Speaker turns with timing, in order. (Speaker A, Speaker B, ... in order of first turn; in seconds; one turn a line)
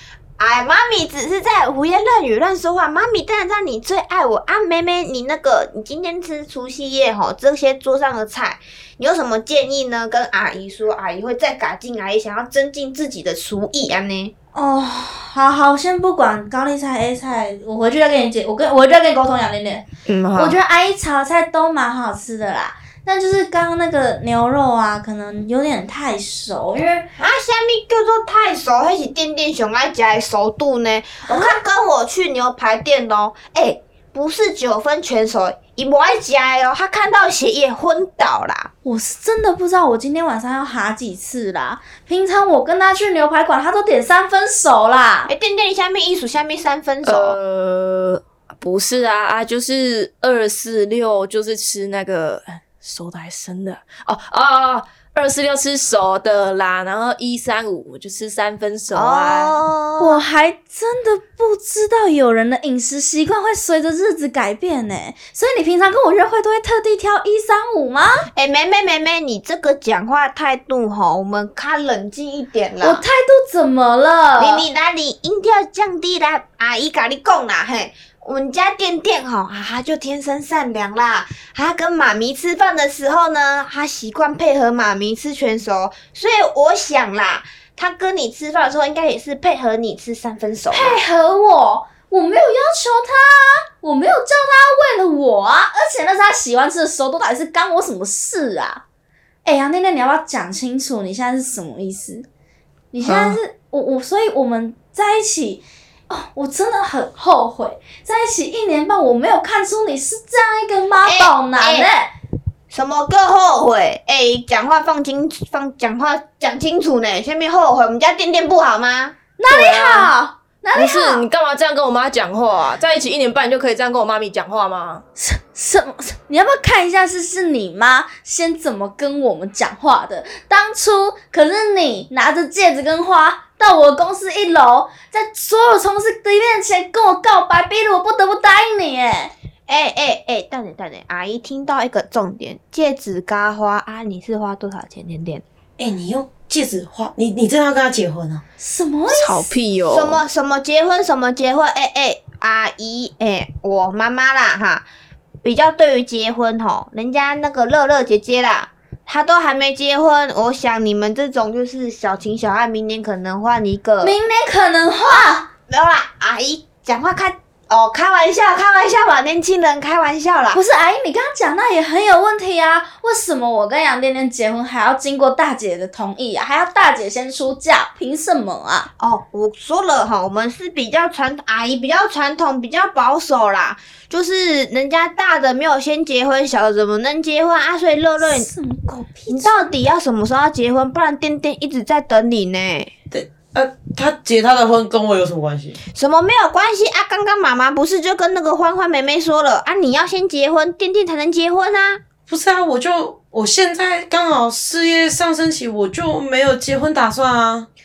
Speaker A: 0.4-14.3
Speaker B: 14.5-27.1
Speaker C: 20.1-20.6
Speaker A: 27.2-38.7
Speaker B: 31.3-31.5
Speaker B: 38.8-45.3
Speaker A: 45.3-47.4
Speaker C: 47.0-59.6
Speaker A: 58.9-60.2
Speaker B: 60.0-68.3
Speaker A: 68.3-73.0
Speaker B: 72.8-74.6
Speaker A: 74.4-91.0
Speaker B: 90.7-98.8
Speaker B: 99.4-102.2
Speaker B: 102.9-112.1
Speaker C: 103.0-103.4
Speaker A: 111.0-111.9
Speaker A: 112.7-119.2
Speaker B: 119.4-121.2
Speaker C: 119.5-120.1
Speaker C: 120.7-125.0
Speaker B: 125.2-139.3
Speaker A: 139.7-145.4
Speaker D: 145.8-148.4
Speaker B: 148.6-149.6
Speaker C: 149.1-150.2
Speaker A: 149.9-154.8
Speaker A: 155.4-164.2
Speaker B: 164.0-165.5
Speaker A: 165.0-170.6
Speaker B: 170.5-178.9
Speaker A: 179.0-188.5
Speaker B: 188.2-189.7
Speaker A: 189.3-192.9
Speaker D: 193.1-195.8
Speaker A: 195.9-202.0
Speaker D: 202.3-207.7